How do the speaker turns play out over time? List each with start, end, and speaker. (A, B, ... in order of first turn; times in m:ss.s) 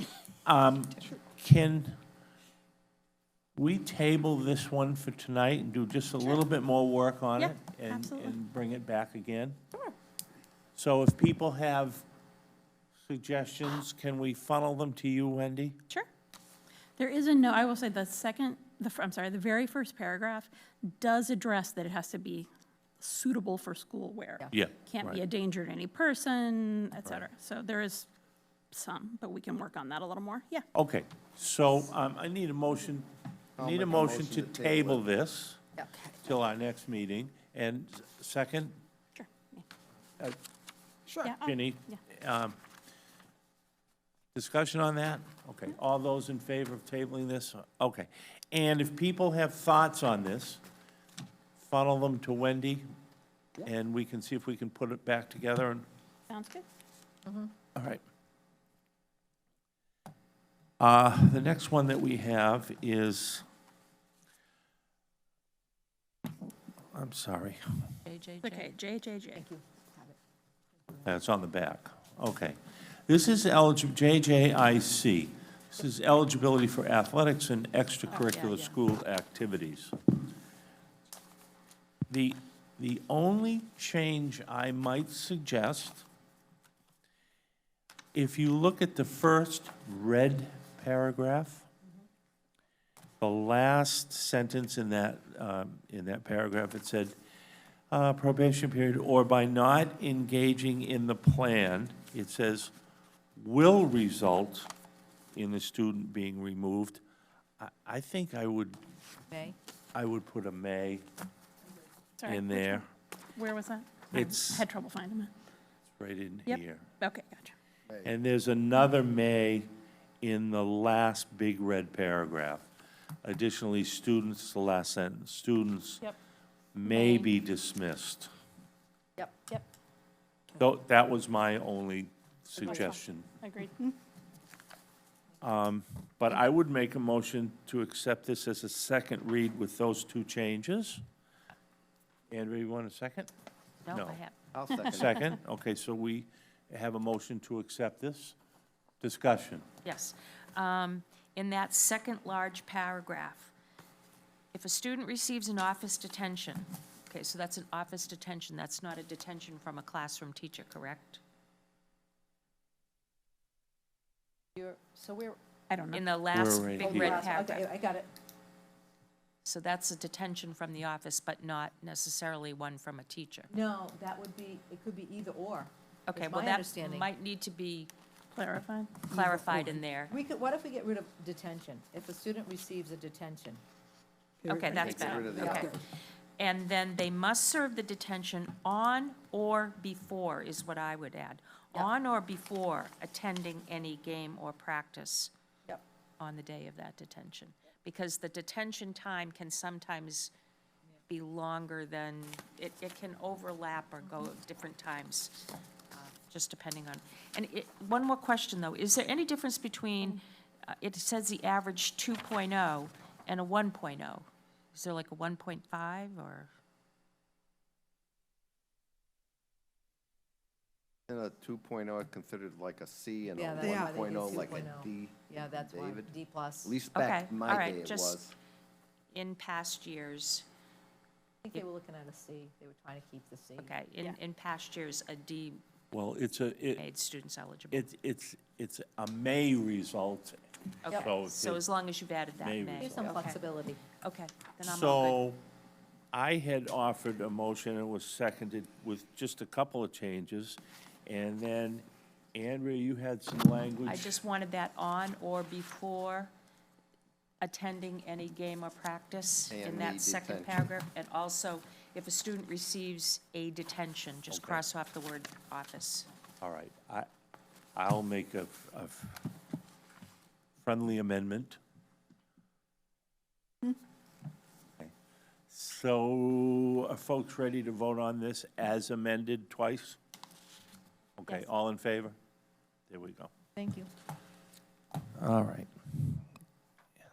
0:00.4-0:02.0 A
0:03.6-0:09.6 A
0:07.4-0:08.4 B
0:10.8-0:12.0 A
0:13.0-0:15.8 A
0:17.0-0:22.5 B
0:23.0-0:28.1 B
0:24.5-0:25.2 A
0:28.7-0:30.6 B
0:30.7-0:35.7 A
0:33.6-0:35.0 C
0:36.2-0:38.8 A
0:39.2-0:39.6 B
0:41.2-0:42.0 B
0:41.2-0:42.5 A
0:44.3-0:50.6 A
0:51.6-0:52.8 A
0:53.6-0:55.8 A
0:56.3-0:56.6 B
0:57.7-0:58.0 A
1:00.8-1:03.4 A
1:06.9-1:07.6 A
1:08.0-1:08.7 D
1:08.4-1:09.4 B
1:09.3-1:10.1 E
1:11.0-1:19.9 A
1:18.1-1:18.8 D
1:22.1-1:26.0 A
1:28.1-1:31.7 A
1:33.2-1:37.1 A
1:37.9-1:42.7 A
1:43.4-1:44.7 A
1:45.3-1:47.0 A
1:47.6-1:48.8 A
1:49.3-1:49.6 E
1:49.9-1:51.0 A
1:52.2-1:55.3 B
1:52.2-1:52.9 A
1:54.1-1:54.6 A
1:55.9-1:56.8 A
1:56.5-1:57.5 B
1:58.0-1:59.7 A
2:00.2-2:02.6 A
2:03.2-2:06.0 A
2:06.7-2:08.3 A
2:06.8-2:07.2 B
2:09.2-2:09.4 E
2:10.6-2:13.3 A
2:12.6-2:14.0 B
2:15.4-2:21.0 A
2:22.3-2:23.3 A
2:23.8-2:24.3 D
2:23.9-2:24.2 A
2:24.5-2:25.2 C
2:24.8-2:28.4 A
2:29.0-2:29.7 A
2:29.8-2:33.5 D
2:34.5-2:41.2 D
2:44.6-2:45.4 E
2:45.7-2:46.0 B
2:45.9-2:47.6 D
2:46.3-2:47.2 A
2:46.8-2:48.1 E
2:49.4-2:53.5 D
2:53.5-2:57.1 E
2:56.1-2:57.9 D
2:58.3-2:59.1 B
2:59.0-3:00.1 D
2:59.1-3:03.6 E
3:04.4-3:05.8 D
3:04.7-3:05.7 C
3:04.8-3:05.1 A
3:05.3-3:05.7 E
3:06.4-3:15.3 D
3:16.2-3:20.3 D
3:21.1-3:25.4 D
3:25.9-3:36.5 D
3:41.1-3:46.1 C
3:43.3-3:46.8 E
3:46.6-3:48.3 C
3:46.9-3:48.2 D
3:49.1-3:50.4 D
3:51.4-3:53.7 E
3:53.6-3:55.6 D
3:55.9-3:56.8 A
3:56.8-3:57.9 D
3:57.7-4:01.6 A
4:00.8-4:03.4 D
4:02.4-4:03.2 A
4:02.8-4:03.8 E
4:04.0-4:05.2 D
4:04.6-4:05.4 A
4:06.1-4:14.2 A
4:13.8-4:16.3 D
4:17.4-4:26.1 D
4:19.5-4:20.6 C
4:24.3-4:24.6 A
4:26.4-4:27.1 A
4:27.8-4:29.3 A
4:30.6-4:31.6 A
4:35.5-4:40.0 A
4:41.2-4:42.2 A
4:42.9-4:43.3 A
4:43.6-4:43.9 E
4:45.1-4:46.2 A